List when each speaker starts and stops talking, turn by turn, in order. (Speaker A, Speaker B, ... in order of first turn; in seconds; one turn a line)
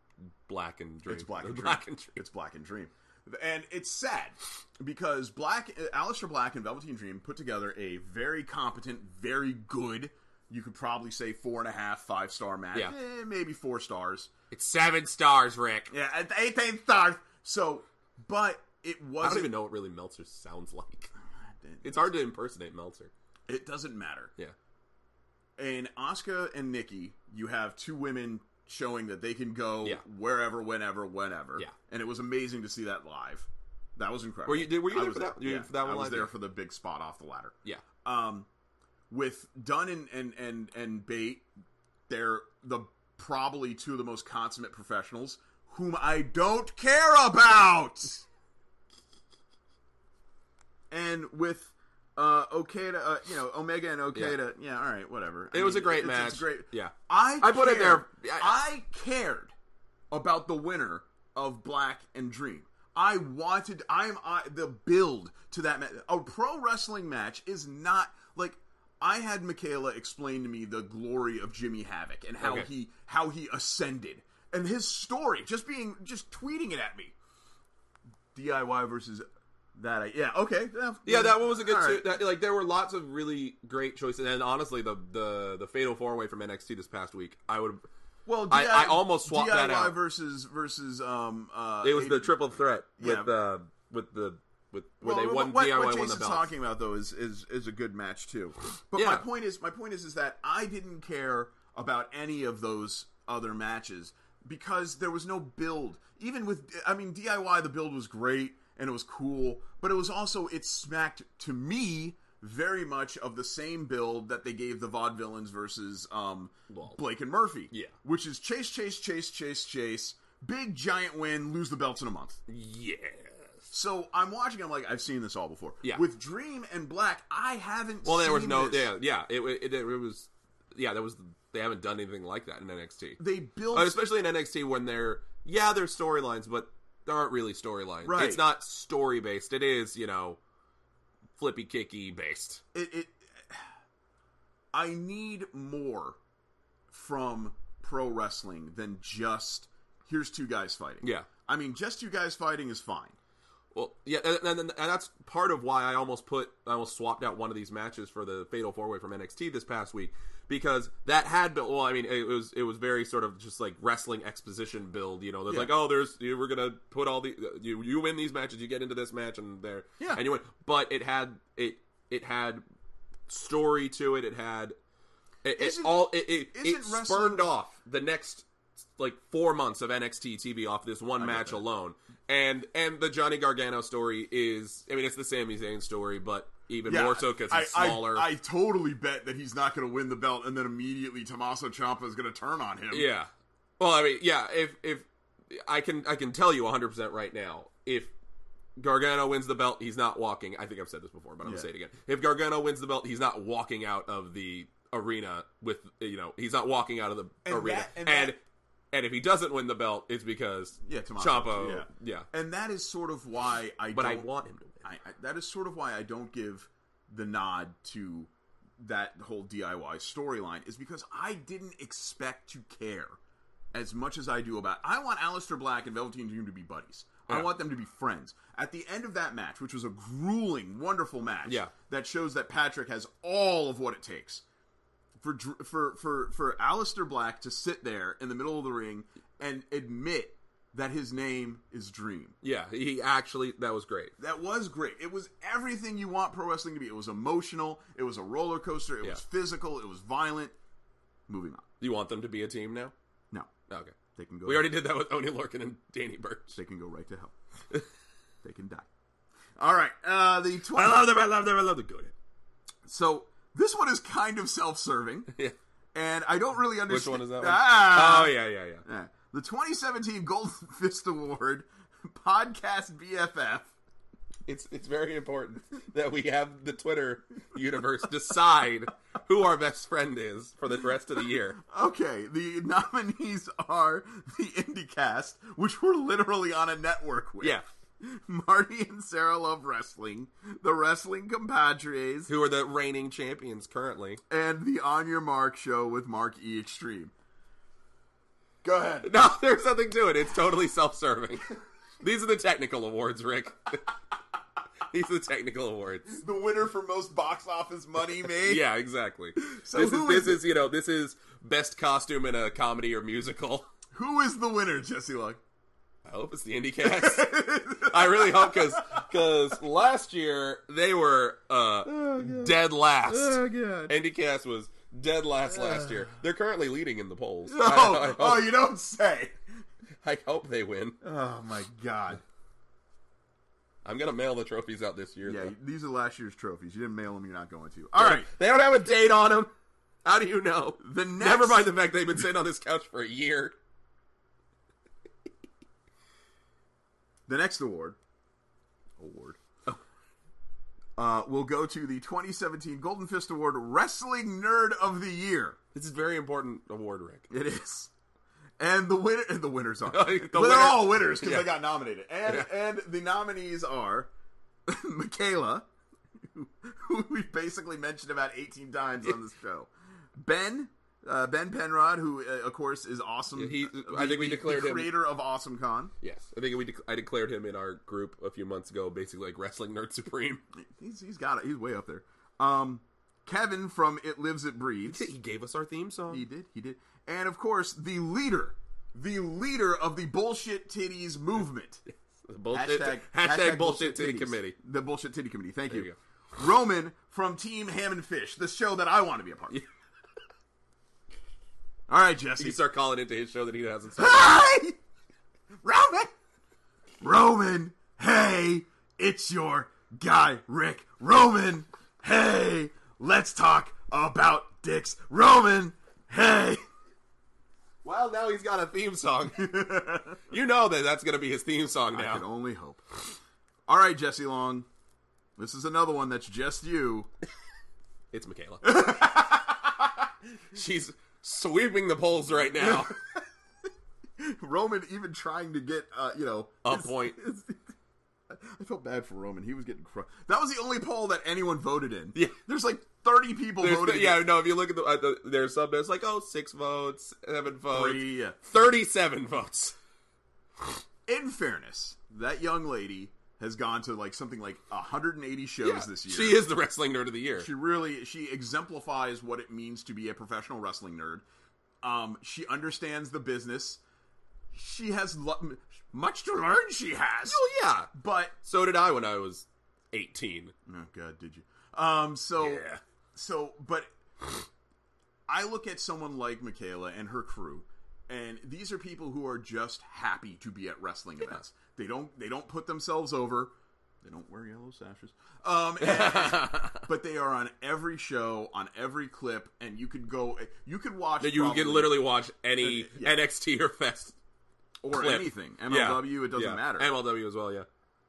Speaker A: 0.5-2.2
Speaker B: 1.1-14.3
Speaker A: 14.5-15.9
Speaker B: 15.9-19.6
Speaker A: 19.2-21.1
Speaker B: 21.6-22.1
Speaker A: 21.8-23.1
Speaker B: 23.5-24.3
Speaker B: 25.6-38.5
Speaker A: 34.5-36.3
Speaker B: 39.1-41.5
Speaker B: 42.1-48.2
Speaker B: 50.9-59.5
Speaker A: 55.5-58.6
Speaker B: 60.1-77.1
Speaker A: 72.4-72.7
Speaker B: 78.3-79.2
Speaker B: 79.8-82.2
Speaker A: 81.0-87.8
Speaker B: 88.3-92.4
Speaker A: 88.5-90.0
Speaker A: 91.8-96.5
Speaker B: 93.0-93.3
Speaker B: 95.0-122.4
Speaker A: 98.9-99.3
Speaker A: 116.7-117.0
Speaker A: 122.5-123.7
Speaker B: 123.7-128.9
Speaker A: 128.0-140.4
Speaker B: 133.2-134.0
Speaker B: 138.1-138.5
Speaker A: 141.4-142.6
Speaker B: 142.7-143.6
Speaker B: 144.7-146.2
Speaker B: 146.9-153.2
Speaker A: 151.0-151.3
Speaker A: 153.7-172.7
Speaker B: 165.5-165.8
Speaker B: 170.0-170.2
Speaker A: 173.3-174.8
Speaker A: 175.4-188.3
Speaker B: 175.6-177.5
Speaker B: 181.2-181.6
Speaker B: 186.9-193.1
Speaker A: 192.9-198.1
Speaker A: 198.8-208.4
Speaker B: 201.4-201.7
Speaker B: 207.4-208.4
Speaker A: 208.9-212.3
Speaker B: 210.8-214.3
Speaker A: 213.9-214.9
Speaker B: 214.8-223.2
Speaker B: 223.7-234.4
Speaker A: 227.3-227.5
Speaker A: 231.5-231.7
Speaker B: 235.2-242.4
Speaker A: 242.4-244.1
Speaker B: 244.2-250.5
Speaker B: 251.3-251.6
Speaker A: 251.8-252.9
Speaker A: 253.7-256.6
Speaker B: 254.2-254.8
Speaker B: 256.5-257.3
Speaker B: 258.4-258.9
Speaker B: 259.6-261.1
Speaker A: 260.7-262.1
Speaker B: 262.9-265.3
Speaker B: 265.9-273.7
Speaker A: 266.9-268.8
Speaker A: 274.5-281.6
Speaker B: 281.7-292.3
Speaker A: 292.3-294.2
Speaker B: 294.3-297.1
Speaker B: 298.6-299.2
Speaker A: 299.0-303.8
Speaker A: 304.9-306.2
Speaker B: 306.1-308.6
Speaker A: 308.3-313.7
Speaker B: 309.4-310.4
Speaker B: 313.9-315.4
Speaker A: 316.1-328.5
Speaker B: 316.9-319.1
Speaker B: 321.9-324.0
Speaker B: 325.7-326.0
Speaker B: 327.5-329.4
Speaker A: 330.0-331.0
Speaker B: 331.0-332.2
Speaker A: 333.8-335.5
Speaker B: 335.3-338.3
Speaker A: 338.0-339.5
Speaker A: 340.1-343.6
Speaker B: 340.8-341.7
Speaker B: 347.3-348.0
Speaker B: 349.0-349.4
Speaker B: 351.0-355.6
Speaker A: 355.7-357.3
Speaker B: 357.3-357.9
Speaker B: 358.6-364.1
Speaker A: 359.9-361.6
Speaker B: 364.7-365.7
Speaker B: 366.3-375.9
Speaker A: 373.3-374.9
Speaker A: 376.0-380.4
Speaker B: 380.6-385.1
Speaker A: 384.9-386.3
Speaker B: 386.1-391.8
Speaker A: 392.2-394.6
Speaker B: 392.5-399.6
Speaker A: 395.7-396.0
Speaker B: 401.9-402.6
Speaker A: 402.4-404.4
Speaker B: 404.0-404.8
Speaker B: 405.6-406.1
Speaker B: 407.0-416.6
Speaker A: 417.8-419.8
Speaker B: 419.4-420.2
Speaker A: 420.3-422.3
Speaker B: 421.9-422.8
Speaker B: 423.7-424.7
Speaker B: 425.4-427.1
Speaker A: 428.1-429.2
Speaker B: 428.6-429.6
Speaker A: 430.5-433.0
Speaker B: 432.6-433.0
Speaker B: 434.2-437.6
Speaker A: 436.6-437.2
Speaker B: 438.3-444.3
Speaker A: 443.6-449.8
Speaker B: 447.7-448.4
Speaker B: 451.1-456.5
Speaker A: 455.6-457.5
Speaker B: 457.4-461.2
Speaker B: 461.8-463.8
Speaker B: 464.5-467.4
Speaker A: 467.3-470.5
Speaker B: 467.9-468.4
Speaker B: 470.7-473.9
Speaker A: 472.4-472.8
Speaker B: 475.3-493.2
Speaker A: 485.8-486.8
Speaker A: 491.2-494.2
Speaker B: 494.8-496.9
Speaker A: 494.9-497.7